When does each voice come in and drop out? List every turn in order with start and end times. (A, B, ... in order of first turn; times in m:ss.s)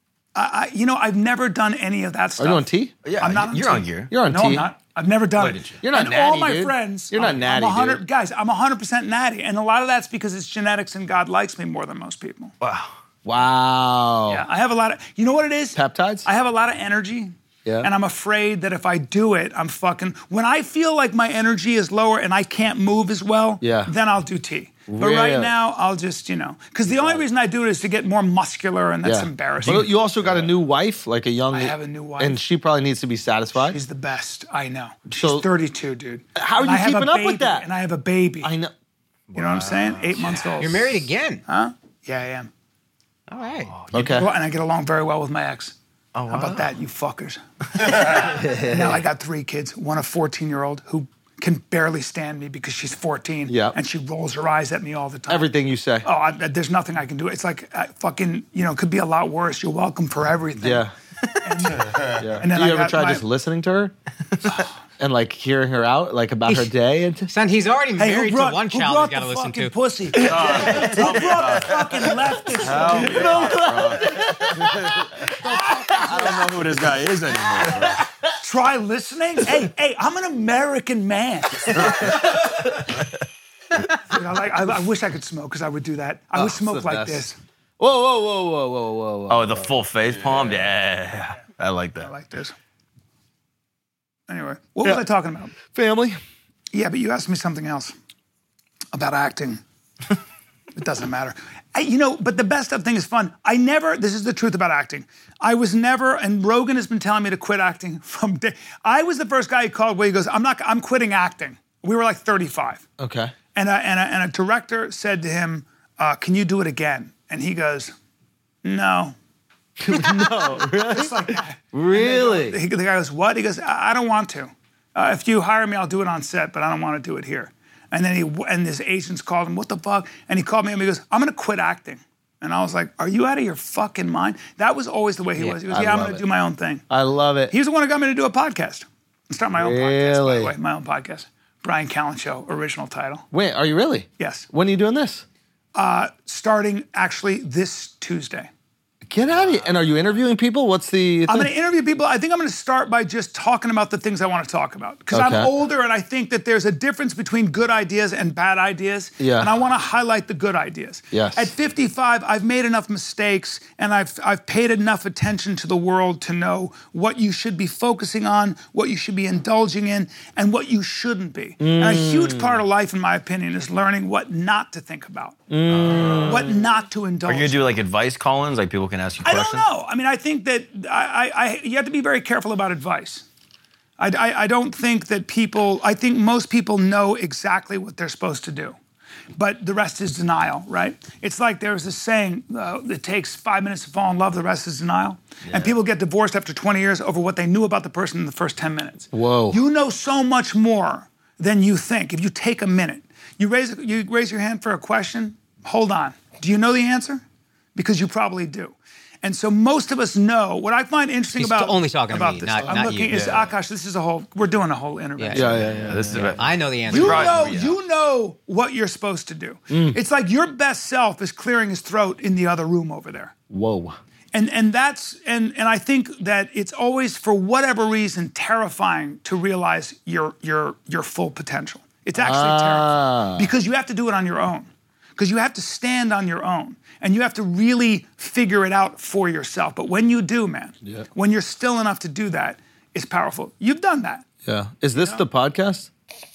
0:00.3-0:02.6 A
0:02.4-0:02.9 B
0:03.0-0:04.1 C
0:03.2-0:12.5 A
0:04.1-0:04.7 B
0:05.4-0:05.8 C
0:05.8-0:08.0 B
0:12.6-0:12.9 C
0:13.2-0:14.4 B
0:14.3-0:29.9 A
0:15.7-0:16.3 B
0:23.6-0:23.9 B
0:24.9-0:25.5 B
0:29.0-0:33.8 B
0:31.5-0:32.4 A
0:33.6-0:38.5 A
0:35.1-0:35.5 B
0:36.3-0:37.7 B
0:38.4-0:38.7 B
0:39.3-0:40.5 C
0:39.3-0:42.5 A
0:40.6-0:41.4 D
0:43.3-0:43.7 D
0:43.6-0:44.1 C
0:43.9-0:44.3 B
0:43.9-0:45.7 A
0:46.1-0:46.7 C
0:46.3-0:55.5 A
0:48.1-0:49.1 B
0:53.5-0:53.8 B
0:55.3-0:56.1 B
0:56.0-1:00.9 A
1:00.6-1:00.9 B
1:01.4-1:03.2 A
1:01.8-1:02.2 E
1:02.2-1:03.9 B
1:05.0-1:07.3 B
1:06.4-1:06.7 D
1:07.3-1:09.7 D
1:08.0-1:13.5 A
1:10.1-1:11.9 E
1:10.5-1:11.8 C
1:10.5-1:10.9 B
1:12.5-1:15.3 E
1:12.8-1:16.7 B
1:15.8-1:16.1 A
1:15.8-1:18.0 E
1:17.6-1:18.3 B
1:18.4-1:22.3 A
1:24.0-1:27.4 A
1:26.3-1:27.3 B
1:27.8-1:29.7 B
1:29.3-1:32.1 C
1:32.0-1:32.5 A
1:34.3-1:35.5 A
1:35.6-1:36.2 B
1:36.7-1:37.9 A
1:38.9-1:39.6 A
1:40.7-1:52.8 A
1:53.0-1:53.3 B
1:53.5-1:57.9 A
1:58.6-1:59.1 A
1:59.8-2:02.6 B
1:59.9-2:16.8 A
2:15.4-2:16.2 B
2:16.9-2:17.5 B
2:17.5-2:23.2 A
2:19.6-2:20.5 B
2:23.3-2:25.2 B
2:24.2-2:24.5 A
2:25.7-2:28.5 A
2:29.0-2:31.5 B
2:31.3-2:55.4 A
2:35.1-2:35.5 B
2:39.2-2:39.5 B
2:41.1-2:41.5 B
2:51.6-2:52.6 B
2:55.5-2:56.6 B
2:55.7-2:56.5 C
2:56.2-2:57.6 A
2:57.2-2:59.6 C
2:59.2-3:03.2 A
3:04.0-3:08.8 A
3:09.3-3:27.2 A
3:15.4-3:15.7 C
3:19.1-3:19.6 B
3:27.7-3:35.8 A
3:31.3-3:33.2 D
3:33.1-3:33.4 C
3:35.2-3:37.5 D
3:35.3-3:36.3 B
3:35.8-3:37.8 C
3:36.9-3:43.3 A
3:39.7-3:40.0 B
3:43.5-3:44.0 B
3:44.3-4:04.3 A
3:52.1-3:53.5 B
4:04.4-4:05.9 B
4:05.0-4:05.2 A